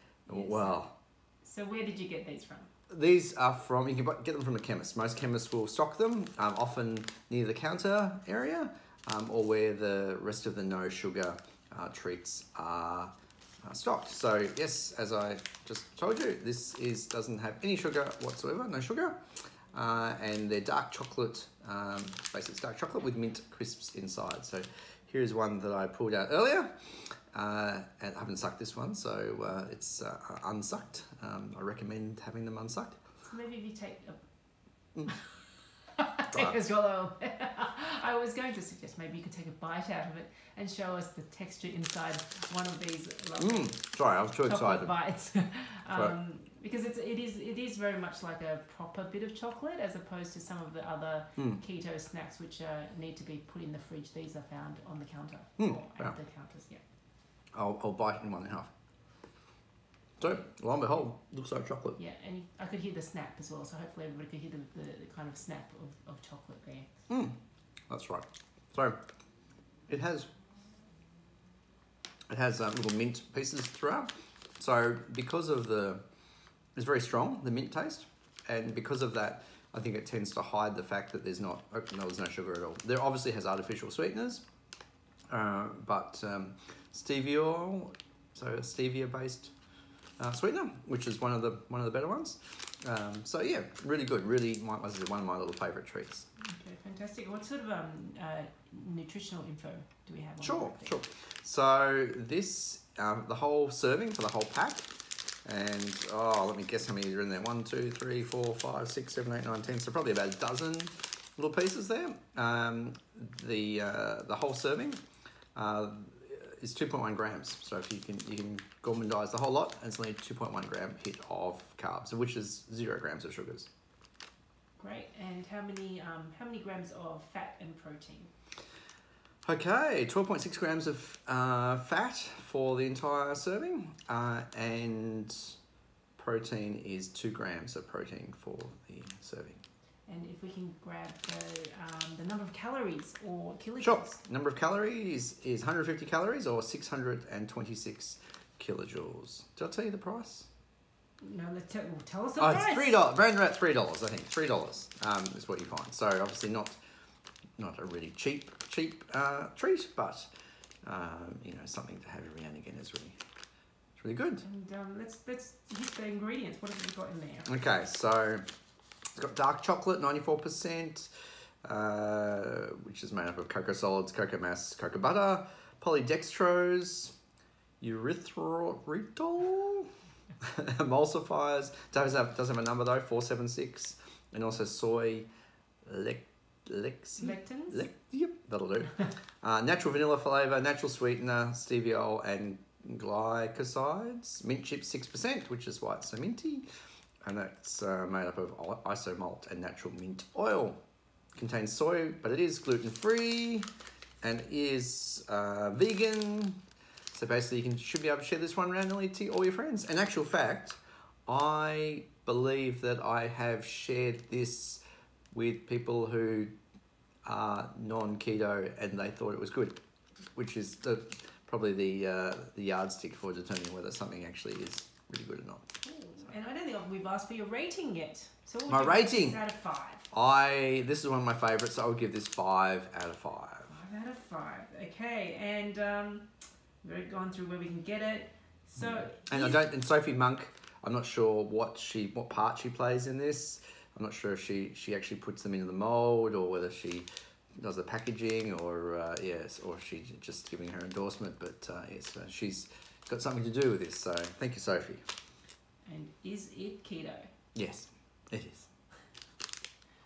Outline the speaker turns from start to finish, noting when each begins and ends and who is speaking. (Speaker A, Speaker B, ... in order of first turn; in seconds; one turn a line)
Speaker A: 0.3-0.8
Speaker B: 0.3-0.9
Speaker A: 1.4-2.7
Speaker B: 2.9-26.8
Speaker B: 27.3-33.0
Speaker A: 33.3-34.2
Speaker A: 35.9-43.8
Speaker B: 36.3-36.6
Speaker B: 43.4-44.9
Speaker A: 44.4-56.8
Speaker B: 55.6-56.1
Speaker B: 57.5-58.7
Speaker B: 60.2-62.0
Speaker A: 62.0-66.9
Speaker B: 67.1-67.4
Speaker B: 67.9-69.0
Speaker B: 69.9-70.3
Speaker B: 72.3-76.0
Speaker B: 76.7-84.5
Speaker B: 85.3-89.5
Speaker B: 90.2-96.3
Speaker A: 96.4-101.0
Speaker B: 100.4-104.9
Speaker B: 105.4-115.0
Speaker B: 115.5-123.7
Speaker A: 124.8-128.3
Speaker B: 129.4-135.6
Speaker B: 136.2-139.6
Speaker A: 140.1-144.2
Speaker B: 143.8-150.5
Speaker A: 151.2-152.9
Speaker B: 152.4-156.8
Speaker B: 157.6-160.3
Speaker B: 160.8-163.2
Speaker B: 163.9-164.4
Speaker A: 164.4-167.5
Speaker B: 167.5-168.4
Speaker B: 169.2-171.1
Speaker B: 171.6-177.2
Speaker B: 177.8-179.9
Speaker B: 180.4-185.3
Speaker B: 185.8-196.7
Speaker A: 187.2-187.8
Speaker B: 197.2-200.8
Speaker B: 201.3-203.7
Speaker B: 204.2-206.6
Speaker B: 207.1-216.5
Speaker B: 217.2-219.8
Speaker B: 220.3-225.7
Speaker A: 225.8-230.0
Speaker B: 228.7-229.4
Speaker B: 230.1-233.7
Speaker A: 233.7-236.3
Speaker A: 236.8-239.6
Speaker B: 238.8-247.1
Speaker B: 247.6-255.0
Speaker A: 255.8-257.3
Speaker B: 257.5-258.7